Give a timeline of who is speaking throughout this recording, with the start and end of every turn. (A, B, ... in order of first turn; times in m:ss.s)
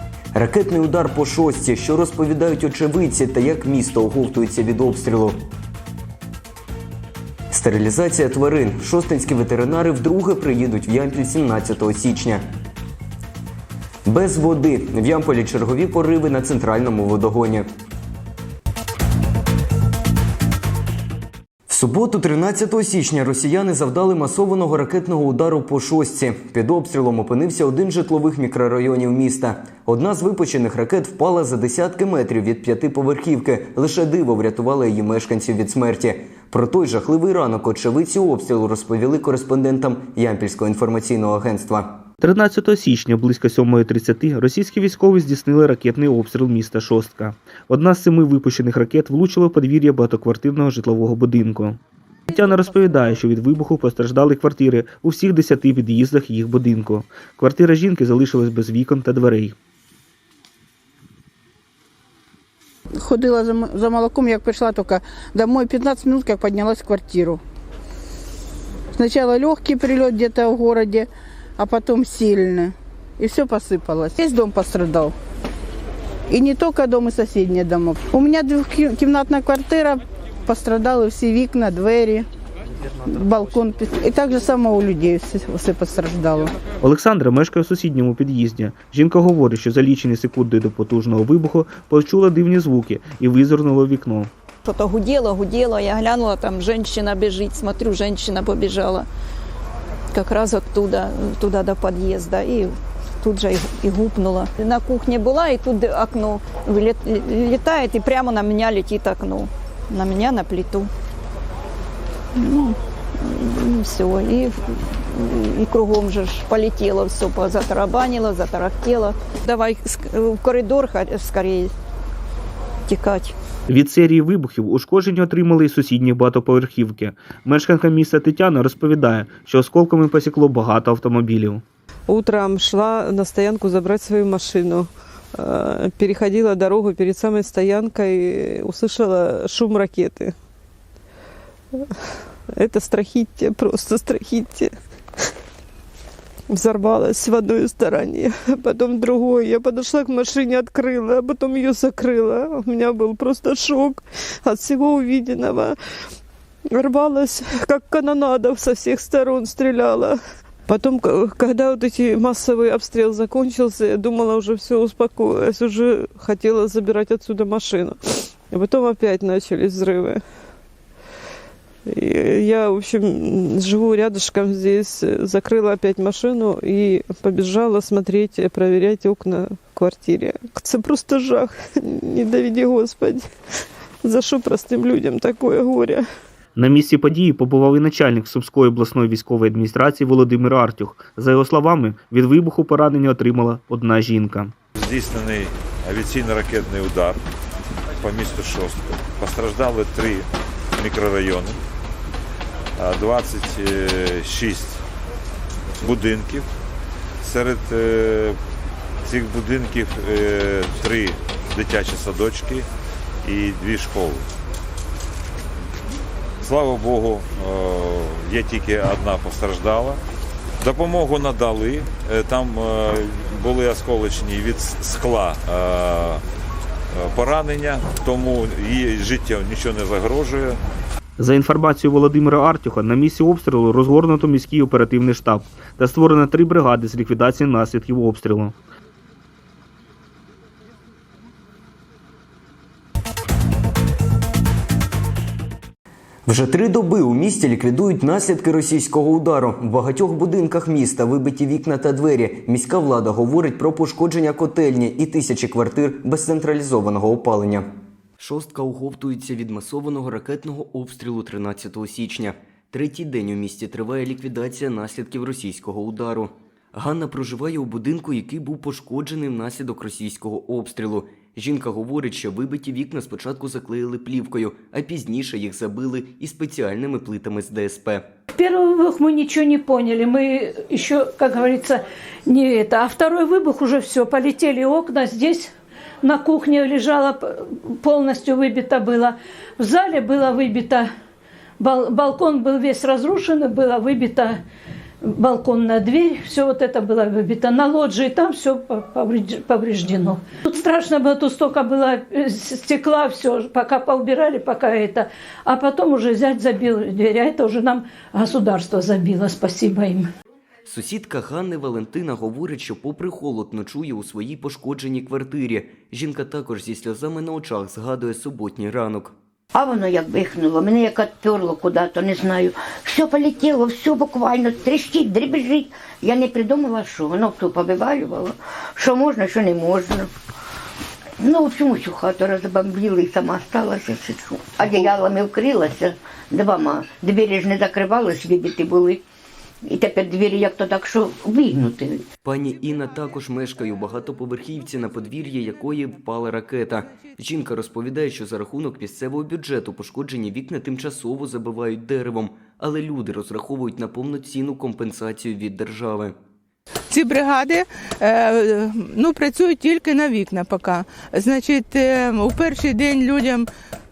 0:00.3-0:05.4 A
0:07.5-0:12.4 A
0:14.0-0:17.6 A
0:21.7-0:41.9 A
0:42.2-0:51.8 B
0:52.3-0:59.6 B
1:03.0-1:07.4 C
1:09.0-1:11.1 C
1:11.6-1:15.1 C
1:16.3-1:22.2 C
1:23.1-1:26.5 C
1:26.8-1:34.3 B
1:34.6-1:39.1 D
1:40.1-1:50.9 D
1:52.4-1:54.6 D
1:55.1-2:01.7 D
2:02.9-2:03.3 D
2:03.7-2:11.6 B
2:12.1-2:20.3 E
2:22.6-2:24.7 E
2:26.5-2:35.7 E
2:36.8-2:40.2 E
2:40.7-2:50.2 E
2:51.9-3:03.3 E
3:04.0-3:06.0 E
3:06.6-3:14.5 B
3:14.8-3:17.2 F
3:18.0-3:21.6 F
3:22.8-3:24.8 F
3:25.8-3:26.5 F
3:27.2-3:28.4 F
3:29.0-3:32.6 F
3:33.2-3:34.2 F
3:36.4-3:40.0 F
3:40.6-3:46.2 F
3:46.9-3:50.6 F
3:51.2-3:58.5 B
4:06.3-4:17.6 A
4:18.2-4:38.0 A
4:38.3-4:45.5 G
4:46.0-4:50.9 G
4:51.6-4:54.4 G
4:55.0-5:10.1 G
5:10.6-5:19.1 A
5:19.5-5:30.1 H
5:31.2-5:39.0 H
5:39.6-5:42.0 H
5:42.2-5:56.1 A
5:56.9-6:03.5 I